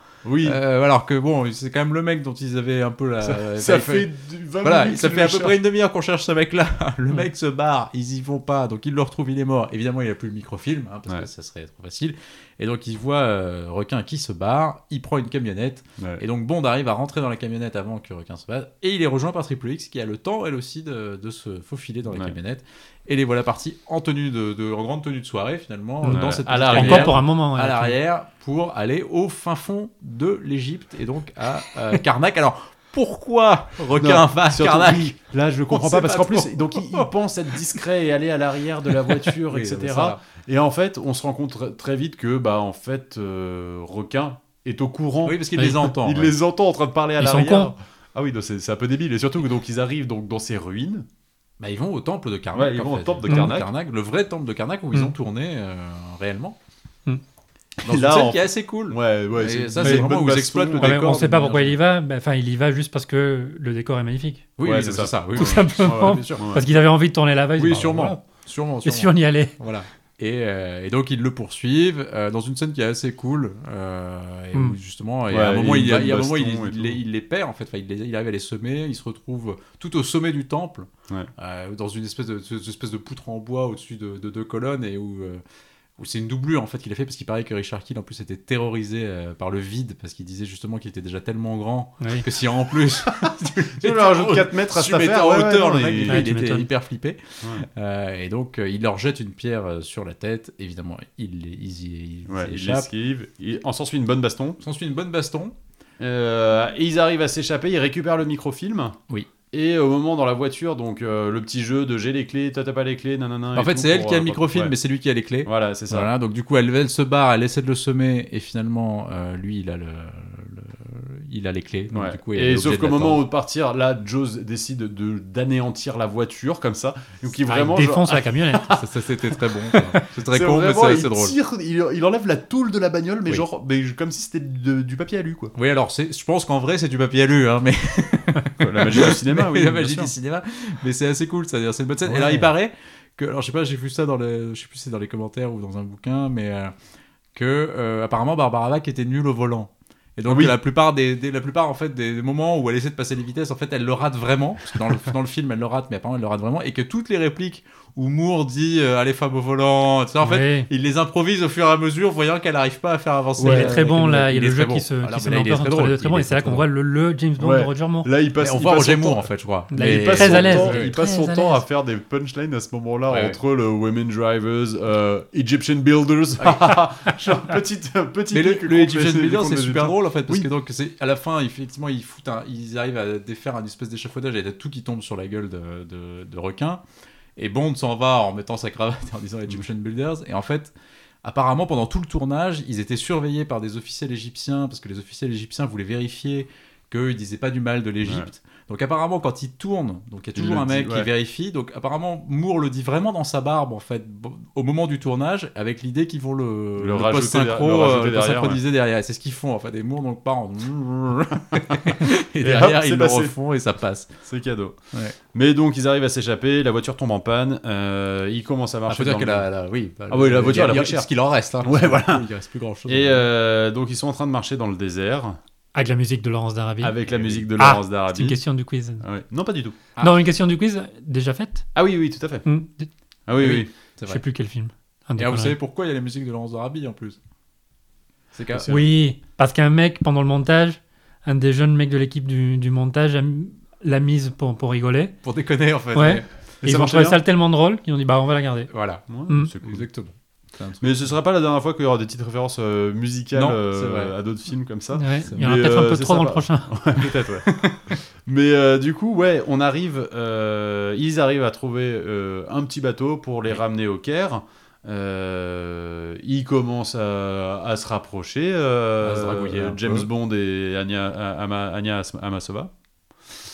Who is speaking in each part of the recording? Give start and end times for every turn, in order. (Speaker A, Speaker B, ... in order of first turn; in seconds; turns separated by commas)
Speaker A: 0.2-0.6, Speaker B: 0.4-4.1, Speaker A: 3.2-5.6, Speaker B: 4.6-35.1, Speaker A: 22.1-22.4, Speaker C: 26.0-28.0, Speaker A: 26.1-27.2, Speaker A: 34.0-51.0, Speaker B: 35.7-37.1, Speaker B: 39.0-40.2, Speaker B: 45.2-46.3, Speaker C: 45.5-45.8, Speaker C: 47.2-47.7, Speaker B: 51.6-56.6, Speaker A: 52.5-53.7, Speaker A: 57.8-61.0, Speaker B: 57.8-61.8, Speaker C: 59.8-60.1, Speaker C: 60.8-64.5, Speaker B: 64.6-66.5, Speaker A: 64.6-66.6, Speaker C: 65.4-68.2, Speaker B: 67.6-85.4, Speaker C: 68.8-69.5, Speaker A: 75.3-77.0, Speaker B: 86.0-102.9, Speaker C: 92.0-92.2, Speaker A: 93.0-96.3, Speaker C: 96.0-96.7, Speaker A: 102.3-104.6, Speaker B: 104.6-105.5, Speaker A: 106.0-109.0, Speaker A: 109.5-114.7, Speaker B: 113.5-123.2, Speaker A: 115.4-116.1, Speaker A: 121.9-128.8, Speaker C: 127.5-128.8, Speaker B: 128.7-131.3, Speaker A: 130.3-135.5, Speaker B: 135.5-146.7, Speaker A: 138.6-140.1, Speaker A: 142.1-142.5, Speaker B: 147.3-166.6, Speaker A: 150.3-150.5, Speaker C: 160.2-160.7, Speaker A: 163.4-163.8, Speaker C: 163.4-168.1, Speaker A: 167.4-180.5, Speaker B: 168.4-170.9, Speaker C: 169.7-171.6, Speaker B: 173.1-173.4, Speaker B: 176.4-176.8, Speaker B: 178.3-186.8, Speaker B: 187.3-190.7, Speaker B: 191.2-214.1, Speaker A: 198.0-198.3, Speaker A: 200.3-201.1, Speaker A: 206.8-208.6, Speaker A: 212.4-213.3, Speaker A: 214.2-214.8, Speaker A: 215.3-219.5, Speaker B: 218.9-223.2, Speaker A: 220.1-222.2, Speaker A: 222.9-225.4, Speaker C: 225.7-226.9, Speaker A: 226.8-228.4, Speaker B: 227.1-227.5, Speaker C: 227.6-229.1, Speaker A: 229.0-229.8, Speaker B: 229.9-230.2, Speaker C: 230.0-231.7, Speaker A: 231.7-232.4, Speaker C: 232.4-232.9, Speaker A: 233.3-233.7, Speaker B: 233.4-234.2, Speaker C: 234.1-235.6, Speaker B: 235.2-237.2, Speaker B: 238.3-238.7, Speaker A: 238.5-238.9, Speaker C: 238.7-245.1, Speaker B: 245.2-246.2, Speaker C: 245.9-248.7, Speaker A: 246.6-247.2, Speaker B: 248.7-249.0, Speaker A: 249.1-249.8, Speaker B: 249.6-251.1, Speaker A: 250.8-272.7, Speaker B: 253.3-254.1, Speaker C: 254.9-256.8, Speaker B: 255.2-255.6, Speaker B: 269.0-270.1